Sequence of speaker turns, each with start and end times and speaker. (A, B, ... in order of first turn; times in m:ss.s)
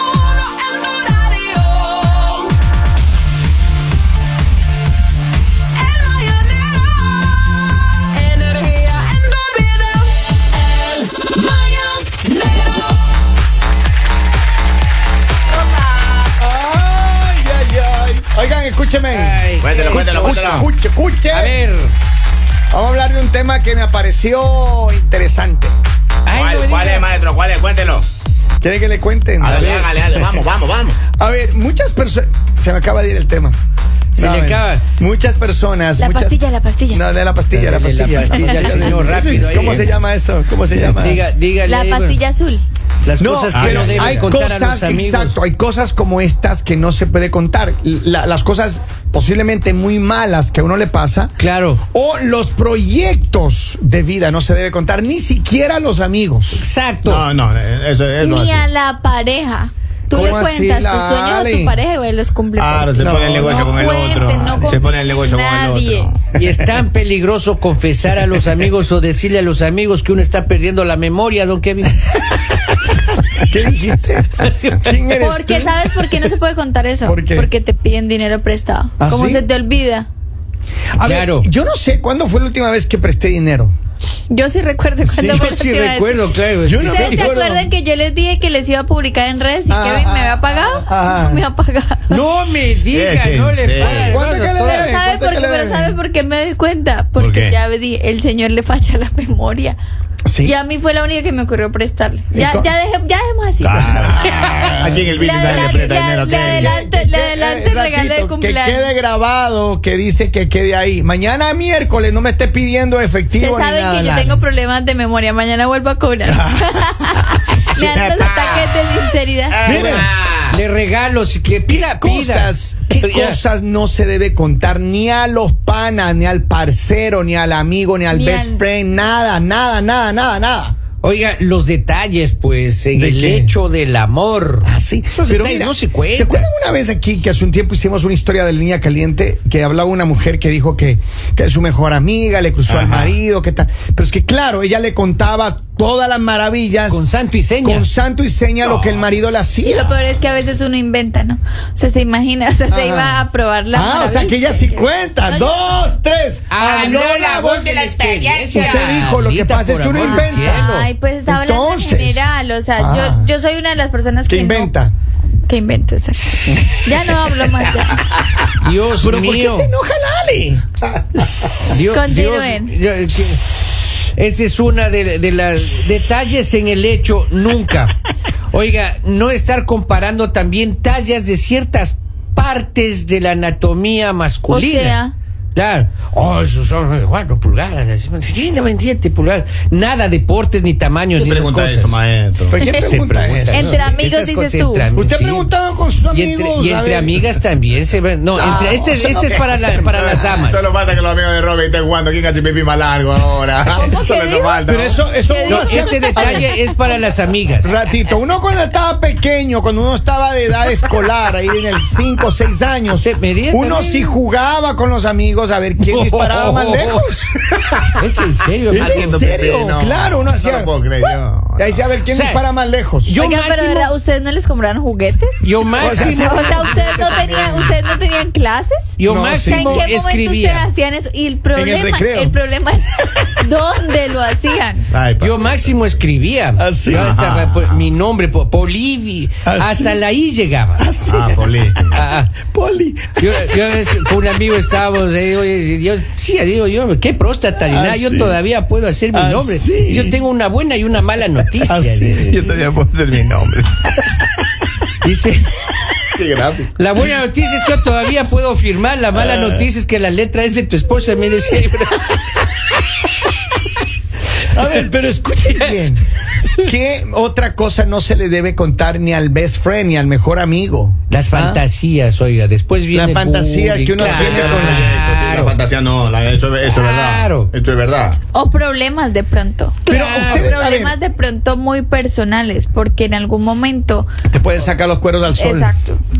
0:01.2-0:01.4 A
0:06.2-0:06.4 A
0:08.5-0:10.0 A
0:10.8-0:12.8 A
0:15.8-0:21.6 B
0:19.1-0:20.6 A
0:19.6-0:20.7 C
0:21.3-0:21.9 A
0:22.7-0:25.7 B
0:26.2-0:27.1 A
0:26.3-0:28.1 C
0:28.6-0:30.4 B
0:29.4-0:31.0 C
0:29.4-0:29.9 A
0:31.2-0:33.6 B
0:34.2-0:34.8 A
0:34.2-0:36.4 B
0:36.0-0:37.0 D
0:36.9-0:41.2 B
0:37.5-0:39.8 A
0:38.8-0:39.9 C
0:40.9-0:42.2 A
0:41.6-0:42.6 D
0:43.0-0:45.4 A
0:43.2-0:51.3 B
0:43.5-0:44.3 C
0:51.4-0:51.8 A
0:51.9-0:56.6 B
0:56.5-0:57.2 A
0:57.0-0:58.7 C
0:58.2-1:06.1 D
1:00.1-1:01.8 B
1:02.6-1:06.3 C
1:03.0-1:03.6 B
1:06.2-1:12.0 A
1:13.4-1:15.8 B
1:14.4-1:15.0 A
1:15.2-1:20.1 D
1:17.0-1:17.5 B
1:19.0-1:19.4 B
1:20.9-1:23.7 B
1:21.0-1:21.5 A
1:24.3-1:26.3 D
1:25.1-1:25.5 B
1:25.3-1:27.7 A
1:26.6-1:27.6 B
1:26.9-1:32.3 D
1:29.7-1:31.4 B
1:32.1-1:35.0 A
1:32.9-1:34.2 C
1:33.8-1:36.0 B
1:34.8-1:39.8 D
1:37.2-1:37.6 C
1:40.2-1:40.5 B
1:40.4-1:43.9 D
1:42.3-1:42.7 B
1:43.6-1:46.8 C
1:43.8-1:45.7 B
1:45.1-1:48.9 D
1:46.4-1:54.4 B
1:53.4-1:59.8 D
1:56.3-1:57.3 B
1:57.7-1:58.9 C
1:59.5-2:00.6 C
1:59.6-2:00.1 B
2:00.5-2:03.4 A
2:01.7-2:10.8 B
2:08.1-2:08.6 D
2:11.0-2:16.5 A
2:12.9-2:13.6 B
2:14.6-2:27.1 B
2:22.7-2:23.1 C
2:26.9-2:27.9 A
2:27.6-2:30.0 B
2:29.6-2:35.6 D
2:32.7-2:37.8 B
2:36.5-2:40.9 A
2:38.5-2:42.3 B
2:40.5-2:44.7 D
2:42.8-2:43.3 B
2:44.3-2:44.9 B
2:45.4-2:46.2 D
2:46.4-2:47.2 B
2:46.8-2:48.0 D
2:48.5-2:49.7 A
2:49.0-2:51.0 B
2:51.2-2:53.6 A
2:51.8-2:52.7 D
2:54.1-2:57.9 A
2:58.5-3:05.0 A
3:04.5-3:05.1 D
3:05.5-3:12.0 A
3:11.2-3:12.6 C
3:12.5-3:14.1 B
3:12.6-3:12.9 D
3:12.6-3:15.5 A
3:13.5-3:14.9 D
3:14.9-3:17.2 B
3:16.1-3:20.6 A
3:18.4-3:20.1 B
3:18.4-3:18.8 D
3:19.2-3:25.0 C
3:23.8-3:26.8 D
3:24.7-3:26.5 B
3:25.4-3:27.7 A
3:27.6-3:37.3 B
3:33.0-3:34.2 A
3:35.8-3:37.1 A
3:38.0-3:39.2 A
3:38.7-3:43.2 B
3:38.8-3:41.8 C
3:42.1-3:42.4 A
3:43.0-3:43.9 A
3:43.2-3:45.4 D
3:45.4-3:47.9 A
3:45.8-3:46.7 B
3:46.1-3:54.8 D
3:49.0-3:50.7 A
3:49.0-3:49.9 B
3:51.5-3:52.3 B
3:54.9-3:56.0 C
3:55.2-4:00.9 A
3:56.6-3:57.2 B
3:56.8-3:57.9 C
3:59.4-4:00.0 B
4:00.8-4:03.4 B
4:01.1-4:02.0 C
4:01.9-4:02.3 A
4:03.2-4:12.3 A
4:07.7-4:08.4 B
4:09.1-4:10.2 B
4:11.6-4:12.5 B
4:12.2-4:13.9 C
4:15.0-4:15.5 A
4:16.1-4:16.7 C
4:16.8-4:22.2 A
4:19.1-4:19.6 B
4:24.5-4:26.0 B
4:25.4-4:25.7 A
4:26.6-4:31.6 B
4:31.1-4:35.5 A
4:32.9-4:35.0 B
4:34.0-4:38.2 C
4:36.8-4:37.5 A
4:38.3-4:44.1 D
4:39.8-4:40.6 A
4:39.9-4:41.0 B
4:44.3-4:45.7 B
4:45.4-4:46.0 D